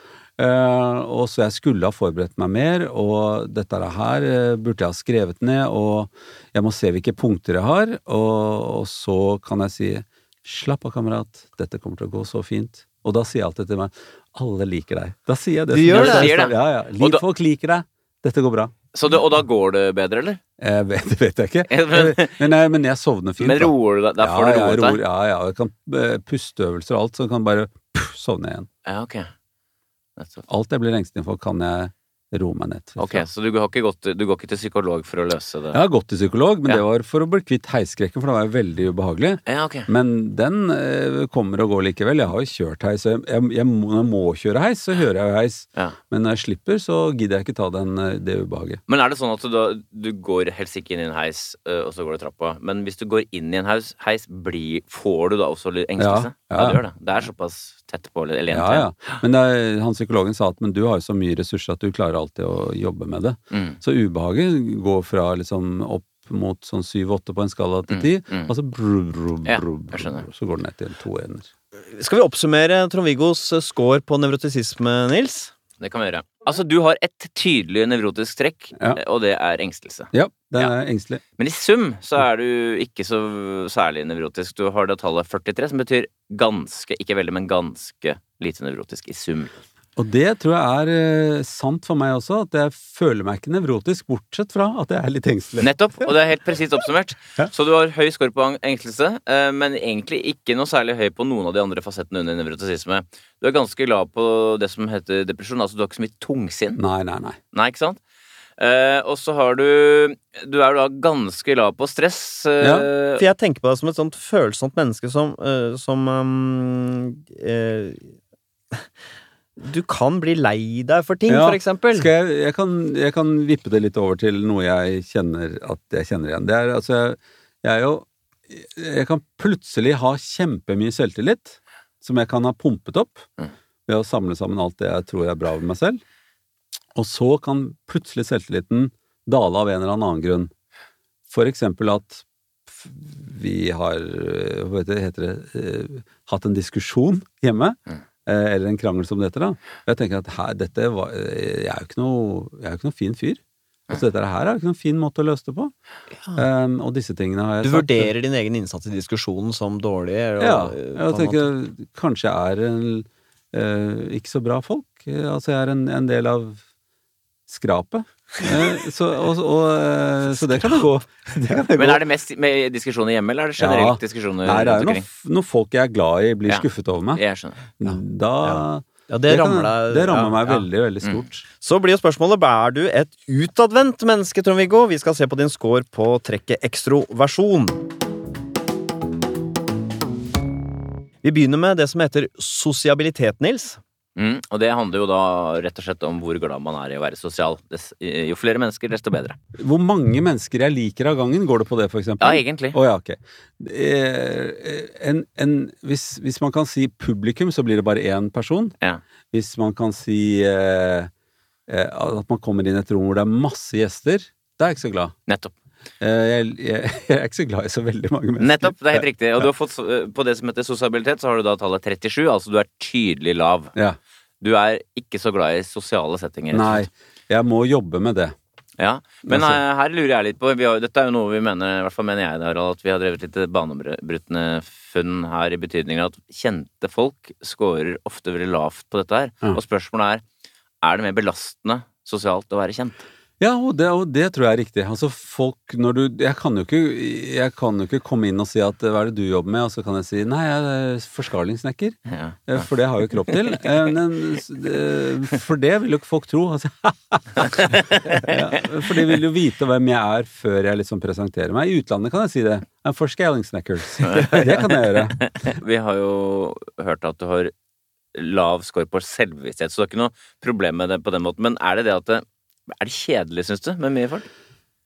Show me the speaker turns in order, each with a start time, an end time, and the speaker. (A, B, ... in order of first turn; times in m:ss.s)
0:00.4-0:18.7 A
0:15.7-0:16.5 B
0:15.9-0:17.2 C
0:18.9-0:20.4 C
0:20.6-0:28.7 A
0:21.7-0:22.4 C
0:23.4-0:25.0 C
0:28.9-0:29.3 C
0:30.2-0:30.4 C
0:30.5-0:33.3 A
0:33.0-0:35.8 C
0:35.7-0:48.8 A
0:39.5-0:39.9 C
0:48.9-0:59.2 C
0:56.0-0:56.8 A
0:58.5-1:11.5 A
1:03.5-1:03.8 C
1:07.9-1:08.5 C
1:09.5-1:10.2 C
1:11.9-1:15.5 B
1:15.8-1:20.7 C
1:20.1-1:21.2 A
1:21.4-1:29.5 C
1:30.0-1:35.7 A
1:35.6-1:46.8 C
1:46.8-1:47.4 A
1:47.5-1:48.0 C
1:48.6-1:53.2 C
1:52.6-1:52.9 A
1:53.2-1:58.1 B
1:59.6-2:02.1 B
2:01.3-2:13.3 A
2:13.9-2:16.0 A
2:17.0-2:20.5 A
2:21.3-2:35.7 A
2:36.4-2:38.1 A
2:37.6-2:41.5 B
2:40.4-2:46.6 A
2:47.5-2:52.0 A
2:51.8-2:55.1 C
2:53.6-2:57.2 A
2:56.5-2:57.7 C
2:57.8-3:01.4 A
2:58.4-3:00.6 B
3:01.6-3:07.8 B
3:11.2-3:13.8 B
3:14.2-3:19.4 C
3:19.6-3:28.7 A
3:22.2-3:22.8 C
3:29.3-3:31.1 A
3:31.7-3:35.1 A
3:35.3-3:35.5 C
3:36.0-3:39.1 A
3:38.4-3:43.7 C
3:44.4-3:46.9 C
3:46.5-3:48.4 A
3:48.8-4:00.2 C
3:49.3-3:49.6 A
4:00.8-4:03.0 C
4:03.4-4:25.2 A
4:12.1-4:12.4 C
4:17.4-4:18.4 C
4:24.0-4:27.5 C
4:28.1-4:34.3 C